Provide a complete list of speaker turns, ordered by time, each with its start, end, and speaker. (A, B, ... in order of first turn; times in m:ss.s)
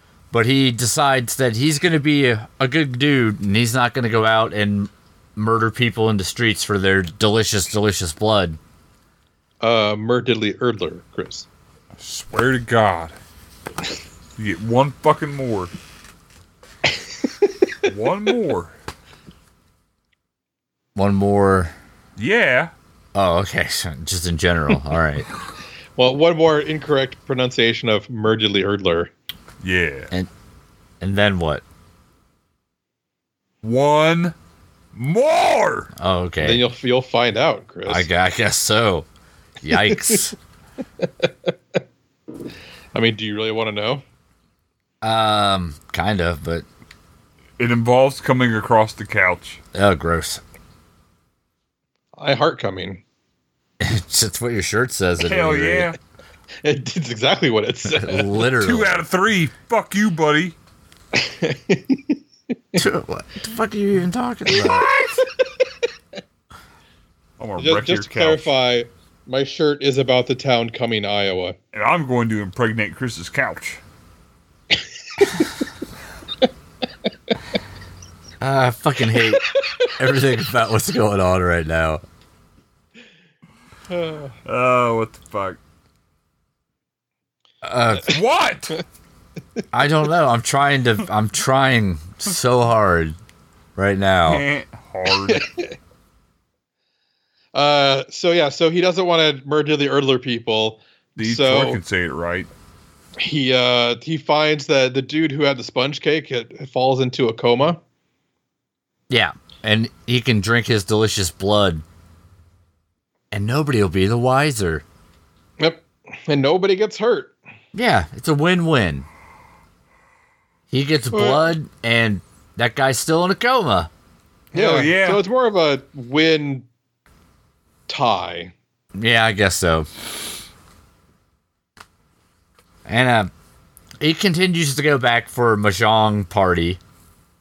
0:00.3-0:08.6 A
0:09.6-0:11.5 B
0:12.0-0:13.2 C
0:14.4-0:15.7 C
0:17.8-0:18.7 C
0:21.0-0:21.7 A
0:22.2-0:22.7 C
0:23.2-0:25.3 A
0:26.0-0:29.1 B
0:29.6-0:30.1 C
0:31.0-0:31.6 A
0:33.6-0:34.4 C
0:34.9-0:35.9 C
0:36.0-0:36.6 A
0:36.4-0:38.1 B
0:37.9-0:39.1 A
0:39.6-0:40.4 A
0:39.8-0:40.2 B
0:42.9-0:44.0 B
0:45.0-0:46.7 A
0:47.6-0:49.6 C
0:49.7-0:50.4 A
0:52.2-0:53.0 B
0:53.8-0:55.9 A
0:55.2-0:56.0 C
0:56.6-0:58.4 B
0:57.9-0:59.0 A
0:58.6-1:00.6 C
1:01.1-1:02.2 B
1:02.8-1:04.9 A
1:04.5-1:05.7 B
1:07.4-1:08.5 C
1:07.6-1:11.6 B
1:11.7-1:13.8 C
1:18.4-1:22.0 A
1:23.9-1:24.4 B
1:24.4-1:25.6 C
1:27.6-1:28.2 A
1:28.0-1:28.8 C
1:29.7-1:33.2 A
1:33.8-1:34.4 A
1:34.3-1:35.5 C
1:35.3-1:35.8 B
1:37.5-1:41.8 B
1:41.2-1:42.5 C
1:43.2-1:47.8 B
1:49.1-1:51.8 A
1:53.3-1:54.8 A
1:55.6-1:57.3 B
1:57.7-1:59.1 A
2:00.7-2:03.9 A
2:01.1-2:01.5 B
2:04.5-2:05.2 C
2:04.5-2:06.6 B
2:07.9-2:08.5 B
2:09.0-2:09.9 A
2:12.9-2:13.3 A
2:14.0-2:16.8 A